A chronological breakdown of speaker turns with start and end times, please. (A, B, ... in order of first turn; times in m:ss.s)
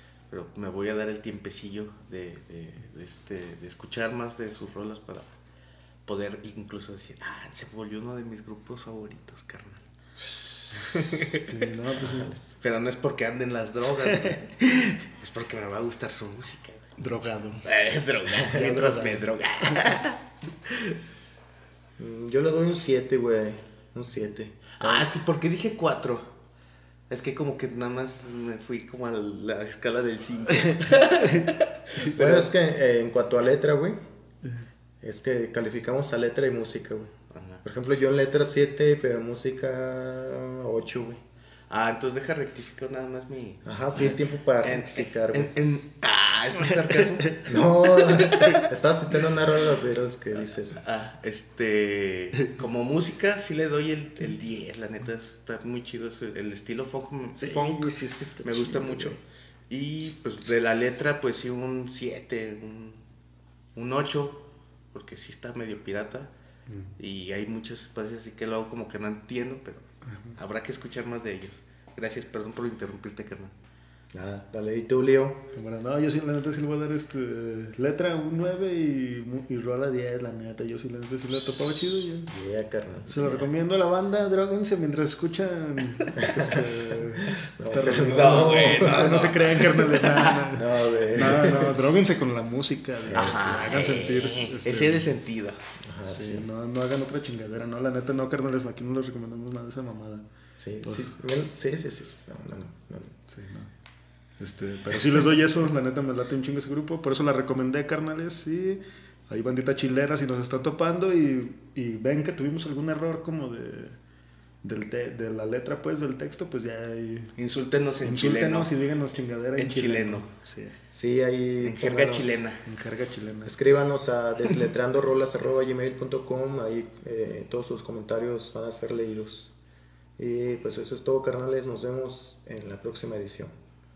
0:00.3-0:05.3 A
0:06.1-0:09.8 A
0:10.2-0:12.4 B
0:10.8-0:11.5 A
0:12.0-0:17.0 A
0:12.1-0:12.4 C
0:14.1-0:15.0 B
0:17.0-0:17.6 B
0:17.6-0:21.0 A
0:18.5-0:19.2 B
0:22.0-0:25.1 C
0:24.8-0:26.3 A
0:27.1-0:32.5 A
0:30.6-0:31.5 B
0:32.2-0:34.0 C
0:35.0-0:41.2 C
0:37.3-0:37.6 A
0:41.7-0:47.5 A
0:43.6-0:45.5 C
0:47.5-0:50.8 C
0:48.0-0:48.6 A
0:48.2-0:48.6 B
0:50.8-1:03.0 A
0:57.4-0:59.2 C
1:03.8-1:06.3 A
1:06.7-1:07.0 B
1:07.0-1:13.5 A
1:10.1-1:10.4 B
1:14.1-1:15.4 C
1:15.5-1:22.3 B
1:22.3-1:23.5 C
1:23.1-1:35.1 B
1:26.2-1:29.4 C
1:28.0-1:30.5 A
1:30.5-1:31.8 C
1:33.1-1:33.7 C
1:33.1-1:35.6 A
1:35.8-1:36.5 C
1:36.1-1:40.3 B
1:40.6-1:43.2 C
1:40.8-1:41.1 B
1:43.3-1:43.7 B
1:44.4-1:54.0 B
1:54.6-1:57.4 B
1:57.4-1:58.7 A
1:58.0-2:00.8 B
1:59.6-2:00.3 A
2:00.9-2:02.4 C
2:01.6-2:02.6 A
2:02.6-2:03.5 B
2:03.4-2:09.6 C
2:10.2-2:13.5 C